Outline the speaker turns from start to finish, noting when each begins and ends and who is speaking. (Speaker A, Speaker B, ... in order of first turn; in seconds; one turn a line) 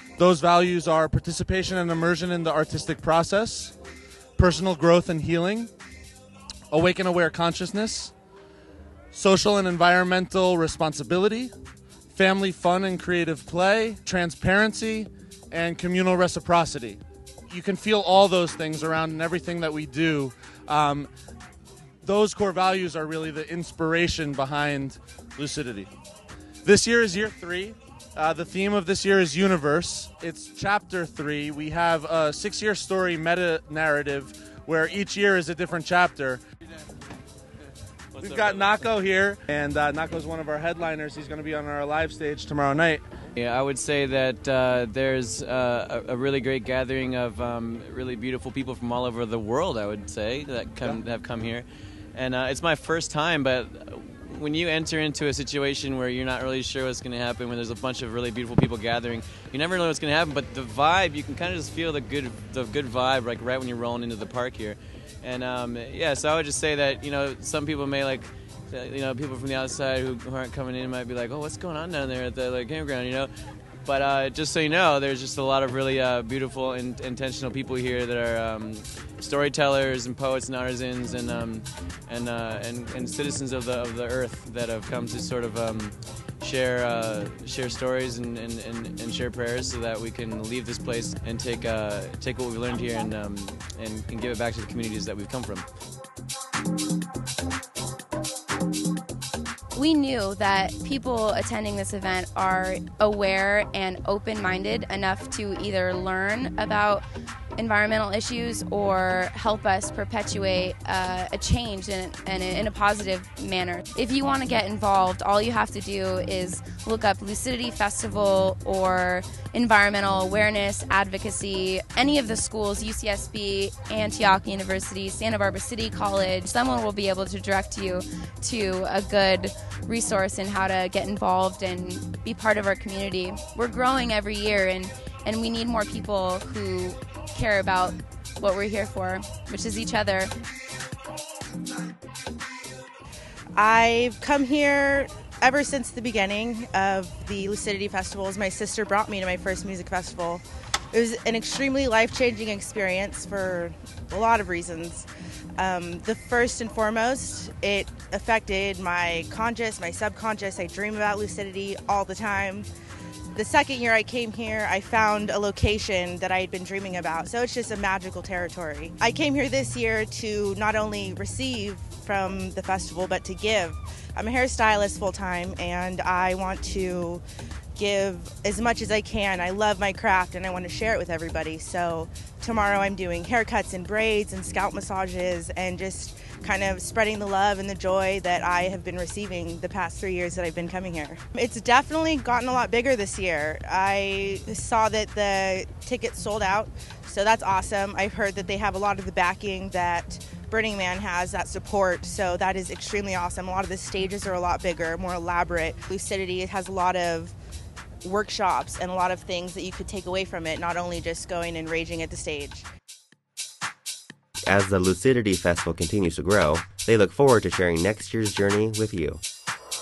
Speaker A: 0.2-3.7
Speaker A: 4.4-5.7
Speaker A: 6.7-8.1
Speaker A: 9.1-11.5
Speaker A: 12.1-20.9
Speaker B: 15.8-16.1
Speaker B: 17.7-20.0
Speaker A: 22.0-25.0
Speaker B: 22.1-22.7
Speaker B: 23.5-24.5
Speaker B: 25.4-25.7
Speaker A: 25.6-25.9
Speaker B: 26.6-27.5
Speaker A: 26.8-34.7
Speaker B: 28.2-31.2
Speaker B: 31.8-33.1
Speaker B: 34.7-35.4
Speaker A: 35.4-36.4
Speaker C: 38.1-39.0
Speaker B: 38.2-39.1
Speaker A: 39.1-43.0
Speaker B: 39.7-42.8
Speaker C: 43.4-73.3
Speaker C: 73.8-95.7
Speaker B: 99.7-107.0
Speaker B: 107.6-140.3
Speaker D: 143.6-155.1
Speaker D: 155.6-162.7
Speaker D: 163.3-177.2
Speaker D: 177.8-207.3
Speaker D: 208.0-212.7
Speaker E: 214.5-219.2